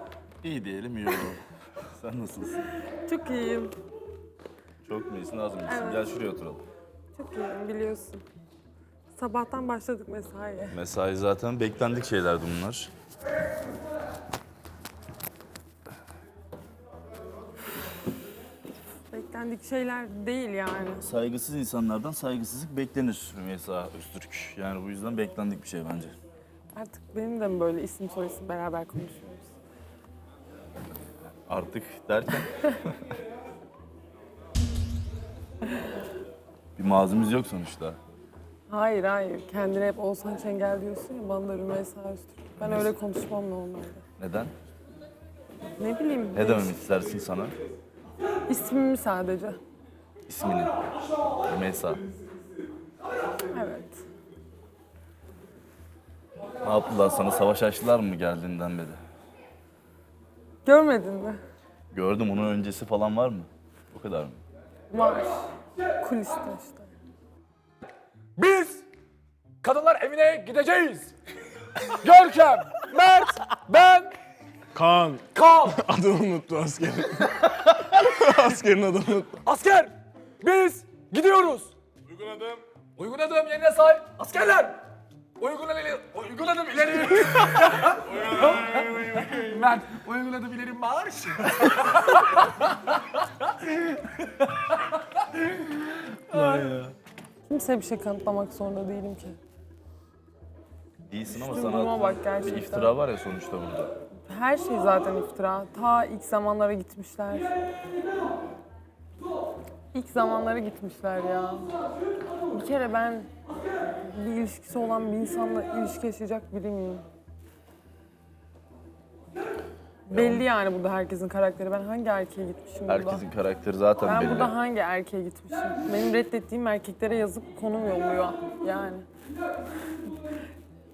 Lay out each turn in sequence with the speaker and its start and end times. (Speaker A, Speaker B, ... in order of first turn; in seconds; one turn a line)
Speaker A: 0.4-2.7
Speaker B: 3.0-3.8
Speaker A: 4.8-6.6
Speaker B: 5.7-6.2
Speaker B: 7.2-8.2
Speaker B: 9.1-10.8
Speaker A: 10.7-12.9
Speaker B: 19.1-21.1
Speaker A: 21.0-26.1
Speaker B: 26.7-29.6
Speaker A: 31.5-33.2
Speaker A: 36.8-38.0
Speaker B: 38.7-44.0
Speaker A: 42.6-42.9
Speaker A: 44.2-44.5
Speaker B: 45.8-46.8
Speaker A: 46.4-47.5
Speaker B: 48.5-49.6
Speaker A: 50.3-50.7
Speaker A: 51.5-52.0
Speaker B: 53.5-54.0
Speaker A: 56.6-59.0
Speaker B: 60.6-61.4
Speaker A: 61.9-64.4
Speaker B: 64.9-65.4
Speaker B: 66.0-66.9
Speaker C: 68.4-68.8
Speaker C: 69.6-71.1
Speaker C: 71.8-74.2
Speaker D: 74.7-77.5
Speaker C: 75.3-75.8
Speaker C: 77.4-78.1
Speaker D: 78.1-79.4
Speaker C: 79.4-84.8
Speaker C: 85.4-94.8
Speaker C: 95.4-96.9
Speaker B: 96.3-96.7
Speaker B: 97.5-99.4
Speaker A: 101.0-103.9
Speaker B: 101.3-103.0
Speaker B: 104.3-107.5
Speaker B: 109.9-111.7
Speaker B: 112.5-113.3
Speaker B: 114.0-117.0
Speaker B: 120.1-123.2
Speaker A: 120.1-120.5
Speaker A: 122.9-124.5
Speaker B: 124.0-129.1